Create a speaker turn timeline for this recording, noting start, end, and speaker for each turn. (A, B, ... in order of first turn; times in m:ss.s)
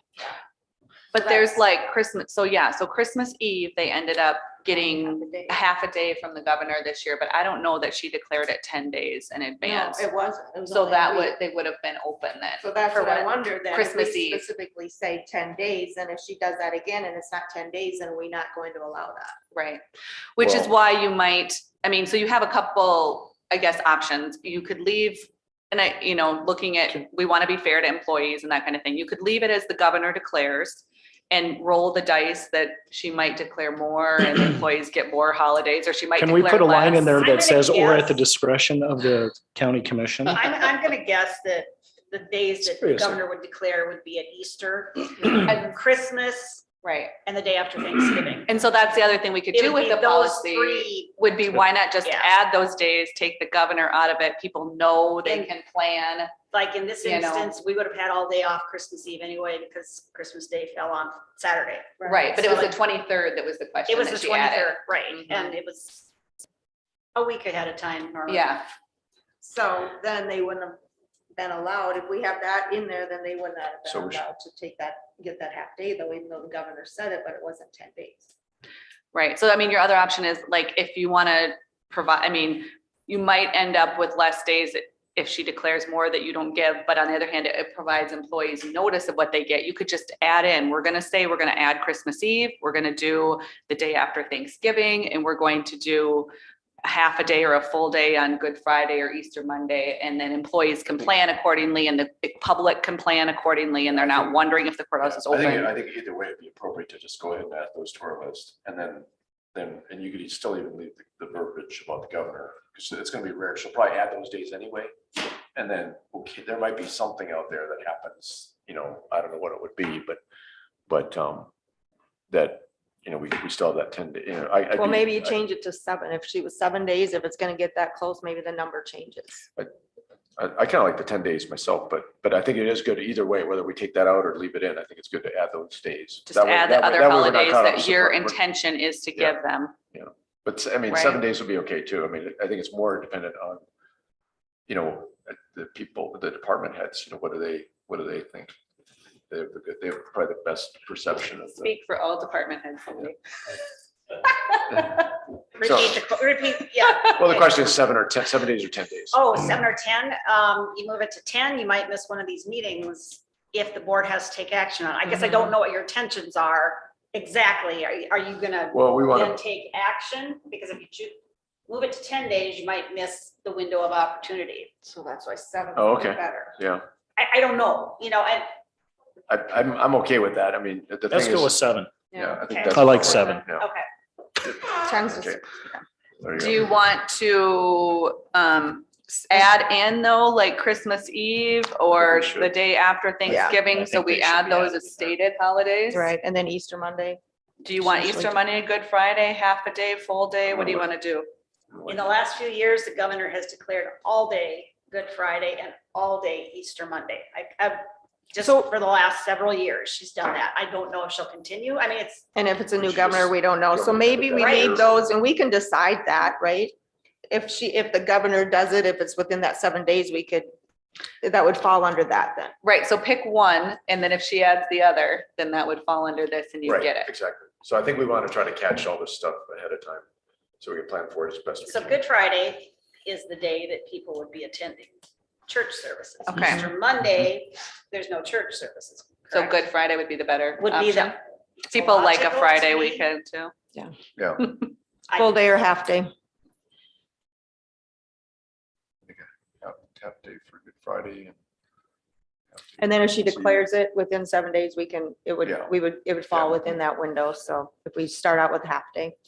0:01.1-0:10.1 A
0:01.2-0:01.6 B
0:04.7-0:05.6 C
0:09.6-0:11.4 C
0:10.7-0:14.4 A
0:12.6-0:19.4 C
0:19.5-0:19.8 A
0:20.4-0:37.2 A
0:20.4-0:20.7 D
0:36.2-0:40.4 E
0:37.2-0:38.2 B
0:40.3-0:46.6 B
0:42.7-0:43.2 E
0:46.8-0:47.2 A
0:47.2-0:48.5 B
0:48.5-0:56.4 A
0:49.5-0:51.2 B
0:52.0-0:52.3 B
0:56.5-1:02.8 B
0:57.0-0:57.5 A
1:02.0-1:02.4 C
1:02.0-1:05.5 A
1:03.9-1:06.1 B
1:07.2-1:08.6 B
1:08.3-1:08.6 A
1:09.4-1:10.8 C
1:11.4-1:18.3 C
1:13.9-1:14.2 D
1:19.1-1:36.3 A
1:36.8-1:45.7 A
1:43.9-1:44.4 D
1:45.0-1:54.9 D
1:55.6-2:00.2 D
2:00.9-2:01.5 D
2:02.3-2:05.4 D
2:04.8-2:09.5 C
2:10.4-2:18.4 D
2:16.3-2:19.8 A
2:19.9-2:23.6 D
2:20.9-2:21.2 A
2:24.7-2:28.5 D
2:29.3-2:31.7 D
2:31.6-2:33.2 A
2:35.6-2:37.6 B
2:35.6-2:36.0 D
2:37.2-2:39.4 D
2:39.1-2:51.2 B
2:48.7-2:49.4 D
2:51.7-2:54.7 B
2:54.8-2:56.6 C
2:55.8-2:56.8 D
2:57.2-2:58.5 B
2:59.3-3:01.6 D
3:01.1-3:02.0 E
3:02.1-3:02.4 C
3:02.1-3:03.7 D
3:02.5-3:03.9 B
3:02.7-3:03.4 E
3:04.4-3:05.4 D
3:04.6-3:05.8 C
3:06.2-3:06.8 D
3:06.4-3:16.1 A
3:11.9-3:12.5 D
3:13.3-3:13.6 C
3:13.4-3:15.1 D
3:15.9-3:17.2 C
3:17.6-3:21.3 A
3:17.8-3:18.4 C
3:20.5-3:20.9 D
3:21.7-3:22.1 D
3:21.9-3:32.2 B
3:32.4-3:36.7 C
3:32.8-3:35.0 D
3:34.4-3:34.8 B
3:37.3-3:40.5 C
3:41.2-3:42.5 C
3:42.6-3:47.1 A
3:46.6-3:50.0 D
3:50.6-3:52.0 D
3:51.7-3:54.9 B
3:55.5-3:59.6 B
3:56.3-3:56.7 A
3:59.3-4:01.2 A
4:00.6-4:03.1 B
4:01.7-4:03.5 A
4:04.2-4:04.5 D
4:05.1-4:05.4 B
4:05.2-4:06.1 C
4:09.1-4:11.4 D
4:12.5-4:13.6 D
4:12.8-4:19.2 C
4:15.4-4:15.7 D
4:16.3-4:16.6 D